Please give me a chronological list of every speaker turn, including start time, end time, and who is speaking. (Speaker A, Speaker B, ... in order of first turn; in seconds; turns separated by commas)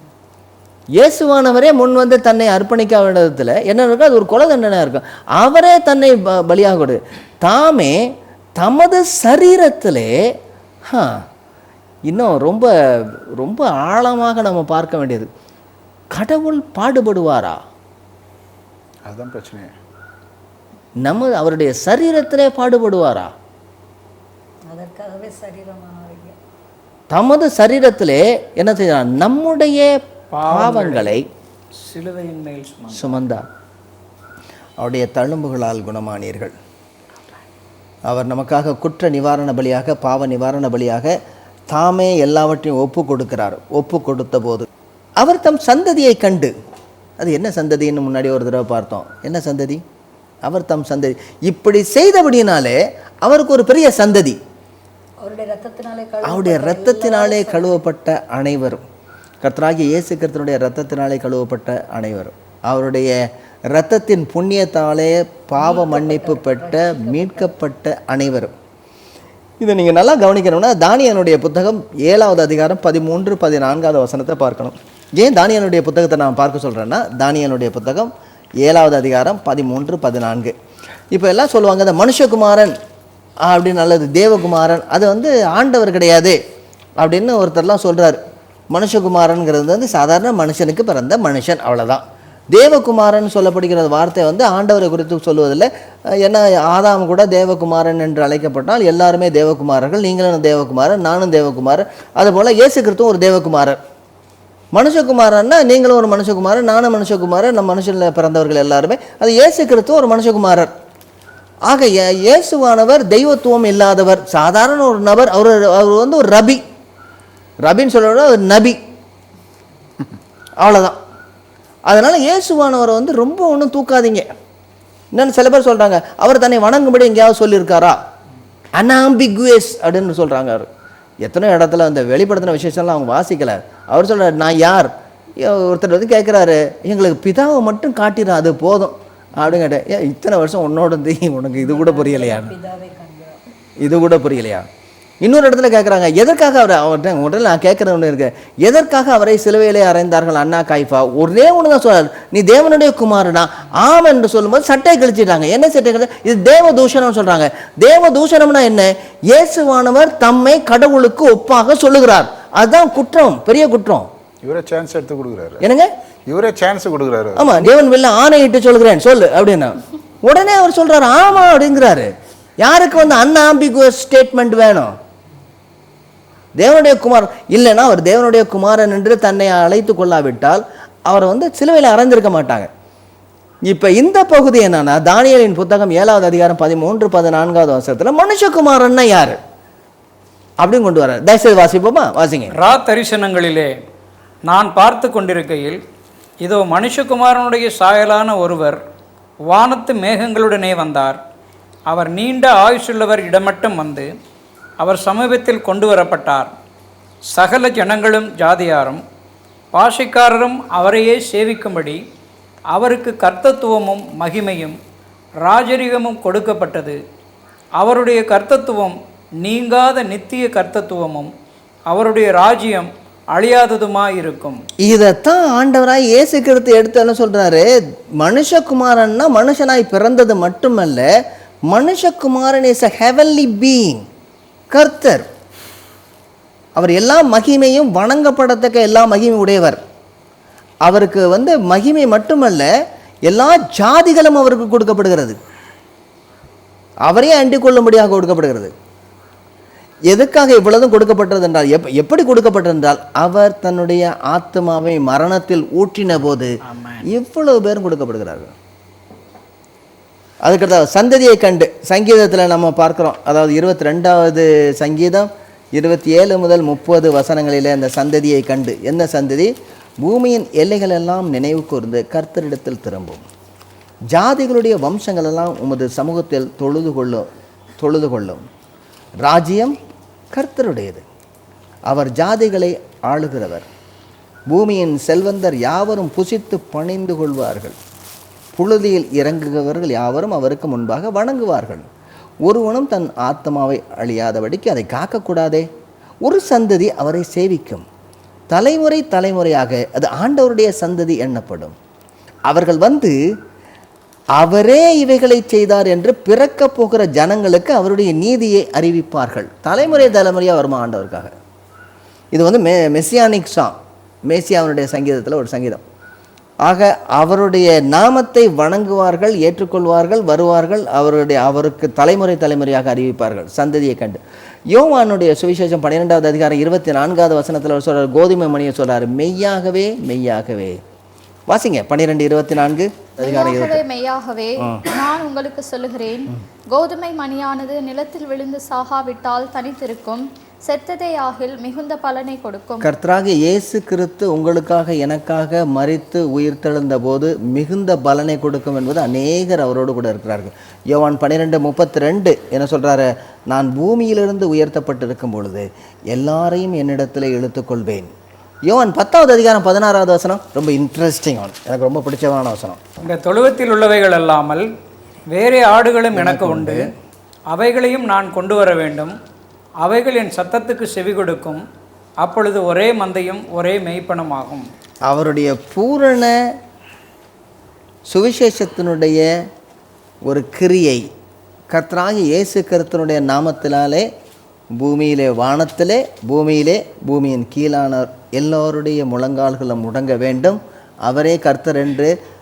Speaker A: 1.0-10.1, Speaker A: 10.9-11.2, Speaker A: 12.1-15.3, Speaker A: 16.1-17.6, Speaker B: 19.1-19.7, Speaker A: 21.0-23.3, Speaker C: 24.7-26.4, Speaker A: 27.1-31.2, Speaker D: 30.3-31.2, Speaker D: 31.8-33.2, Speaker A: 32.9-33.5, Speaker A: 34.8-36.5, Speaker A: 38.1-41.1, Speaker A: 41.7-44.7, Speaker A: 45.2-46.5, Speaker A: 47.2-49.8, Speaker A: 50.4-54.4, Speaker C: 55.2-57.8, Speaker A: 56.2-58.8, Speaker A: 59.4-63.2, Speaker A: 63.7-68.5, Speaker C: 65.6-67.5, Speaker A: 69.6-78.1, Speaker A: 78.6-80.5, Speaker A: 81.1-82.7, Speaker A: 83.4-86.4, Speaker A: 87.0-88.2, Speaker A: 88.7-103.8, Speaker A: 104.7-110.7, Speaker A: 111.7-116.6, Speaker A: 117.6-118.8, Speaker A: 120.6-121.0, Speaker A: 121.9-124.2, Speaker A: 125.1-128.0, Speaker A: 128.8-130.7, Speaker A: 131.2-142.5, Speaker C: 141.6-143.4, Speaker A: 143.8-144.7, Speaker A: 145.2-164.1, Speaker B: 164.4-165.6, Speaker A: 165.6-165.9, Speaker B: 166.3-167.6, Speaker A: 167.4-172.1, Speaker A: 172.6-174.9, Speaker A: 176.6-182.7, Speaker A: 183.7-189.4, Speaker A: 190.6-192.6, Speaker D: 192.5-193.7, Speaker D: 194.5-195.8, Speaker D: 196.4-198.8, Speaker D: 199.5-201.2, Speaker D: 201.9-204.1, Speaker D: 204.8-206.5, Speaker D: 207.3-209.0, Speaker D: 209.7-212.0, Speaker D: 212.7-214.8, Speaker D: 215.4-217.0, Speaker D: 217.8-221.3, Speaker D: 221.9-224.6, Speaker A: 224.8-227.7, Speaker A: 228.2-231.1, Speaker A: 231.7-234.0, Speaker A: 234.7-235.2, Speaker A: 236.8-239.8, Speaker A: 240.8-242.7, Speaker A: 243.3-245.4, Speaker A: 247.0-248.7, Speaker A: 250.1-258.5, Speaker D: 256.7-257.0, Speaker A: 260.4-273.2, Speaker A: 274.1-277.3, Speaker A: 277.8-278.4, Speaker A: 279.2-279.8, Speaker A: 280.3-281.0, Speaker A: 281.9-283.7, Speaker A: 284.5-287.8, Speaker A: 288.5-291.9, Speaker A: 292.4-295.6, Speaker A: 296.2-297.8, Speaker A: 298.5-301.7, Speaker A: 302.5-303.1, Speaker A: 304.4-311.3, Speaker A: 312.3-313.8, Speaker A: 314.3-315.8, Speaker A: 316.6-324.2, Speaker A: 324.7-330.8, Speaker A: 331.5-333.8, Speaker E: 333.3-342.8, Speaker A: 334.6-334.9, Speaker A: 342.8-358.1, Speaker A: 358.7-362.8, Speaker D: 363.0-364.6, Speaker D: 365.3-366.9, Speaker A: 366.1-366.9, Speaker D: 367.5-369.1, Speaker D: 369.8-371.6, Speaker D: 372.2-374.6, Speaker A: 375.1-376.3, Speaker A: 378.1-379.3, Speaker A: 380.2-381.1, Speaker A: 381.7-384.1, Speaker A: 384.8-392.1